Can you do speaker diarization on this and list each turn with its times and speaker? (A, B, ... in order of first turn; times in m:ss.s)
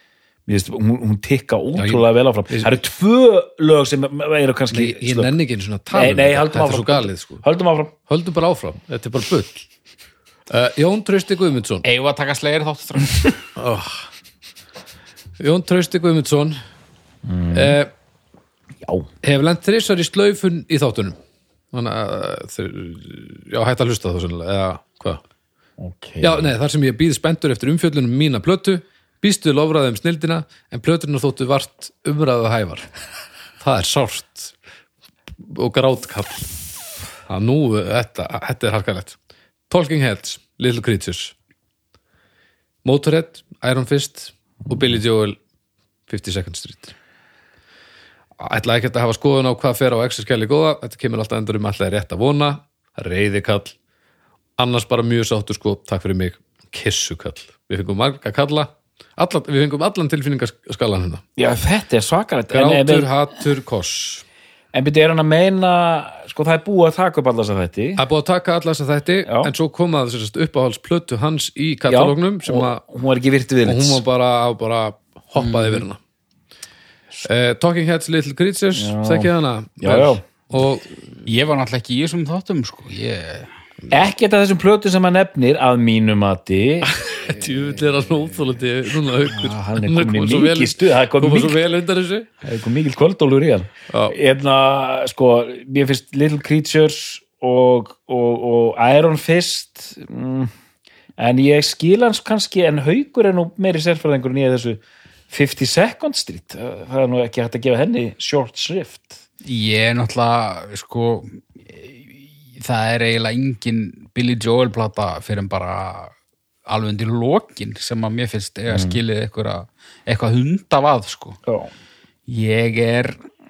0:00.5-0:05.3 A
0:01.8-0:02.7 B
0:04.7-0:07.4 B
0:05.9-0:08.0 A
0:08.1-0:09.7 B
0:10.5-0:11.8 B
0:11.8-0:13.4 C
0:13.6-0:14.1 B
0:15.4-0:16.6 B
0:17.2-0:17.8 A
0:17.5-0:17.9 B
0:18.8-0:19.1 A
0:19.2-0:21.2 B
0:21.7-0:25.2 B
0:25.8-0:26.5 A
0:26.2-0:32.9 B
0:33.6-0:34.6 B
0:35.4-0:36.5 B
0:37.3-0:39.2 B
0:39.7-0:41.3 B
0:42.8-0:45.4 B
0:46.1-0:46.9 B
0:48.4-0:53.8 B
0:54.6-1:01.2 B
1:01.4-1:03.1 A
1:02.5-1:04.2 B
1:04.7-1:08.0 A
1:08.0-1:12.8 B
1:09.3-1:09.5 A
1:11.9-1:14.0 A
1:13.6-1:16.0 B
1:17.2-1:20.9 B
1:18.7-1:20.2 A
1:21.3-1:23.5 C
1:23.9-1:26.9 A
1:26.8-1:32.3 B
1:29.2-1:31.6 A
1:32.4-1:40.5 A
1:33.9-1:34.2 B
1:41.2-1:49.2 A
1:49.4-1:56.1 C
1:56.7-2:01.4 C
1:58.7-1:59.0 A
2:02.3-2:03.2 C